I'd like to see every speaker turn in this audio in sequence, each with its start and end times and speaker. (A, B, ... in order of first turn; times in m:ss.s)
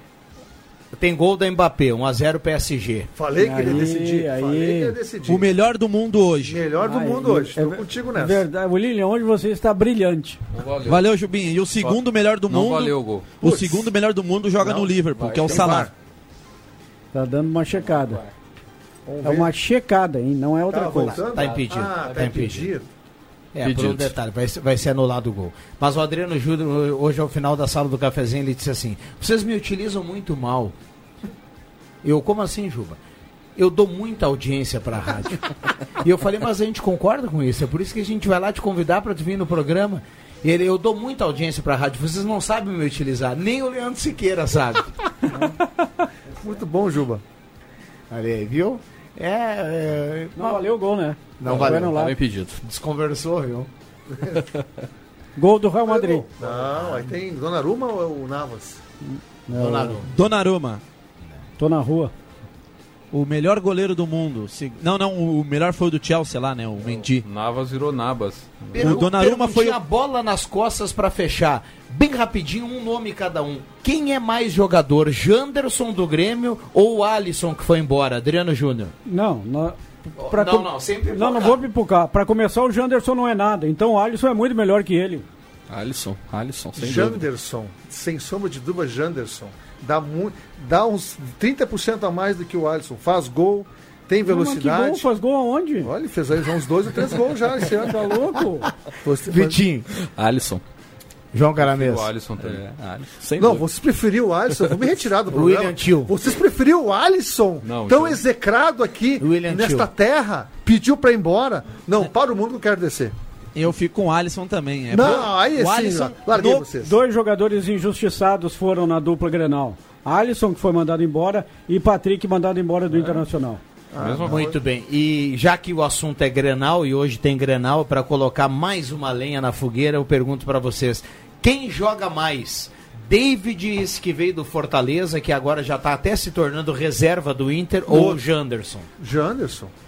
0:00.9-0:03.1 A
0:03.1-0:05.5 B
0:03.4-0:04.9 C
0:05.3-0:06.6 D
0:06.4-0:08.4 B
0:06.8-0:10.4 C
0:10.5-0:11.0 E
0:10.8-0:15.9 D
0:11.8-0:13.3 E
0:13.4-0:13.9 B
0:14.6-0:15.9 B
0:15.3-0:15.8 E
0:17.1-0:18.2 C
0:19.0-0:19.5 B
0:19.2-0:21.2 C
0:20.7-0:22.9 B
0:21.1-0:22.7 A
0:23.5-0:30.7 A
0:23.6-0:24.1 F
0:32.0-0:33.0 A
0:33.6-0:35.5 A
0:36.0-0:44.9 A
0:46.3-0:47.2 B
0:48.1-0:50.6 A
0:50.4-0:52.2 C
0:51.4-0:52.0 A
0:51.4-0:52.6 F
0:52.6-0:53.7 A
0:55.4-0:56.2 C
0:55.8-0:58.8 B
0:56.4-0:57.1 A
0:59.0-1:00.0 C
0:59.5-1:00.1 A
1:00.1-1:00.8 D
1:01.6-1:02.1 C
1:03.1-1:07.2 D
1:07.2-1:08.7 E
1:08.7-1:18.9 A
1:08.8-1:09.8 D
1:19.0-1:25.2 C
1:20.2-1:21.6 A
1:25.7-1:27.2 F
1:26.8-1:35.1 B
1:34.2-1:35.9 C
1:35.8-1:38.2 B
1:37.8-1:38.7 C
1:39.0-1:39.6 B
1:39.3-1:39.8 A
1:40.1-1:40.6 F
1:41.3-1:42.1 A
1:41.6-1:42.6 E
1:42.4-1:43.6 F
1:43.4-1:53.1 B
1:45.3-1:46.1 A
1:47.6-1:48.2 E
1:49.2-1:49.9 A
1:53.5-1:56.6 D
1:54.9-1:57.0 B
1:56.8-2:03.6 C
2:02.9-2:03.2 E
2:03.9-2:04.6 B
2:04.0-2:04.5 E
2:04.2-2:18.9 A
2:17.9-2:18.2 B
2:19.0-2:19.7 B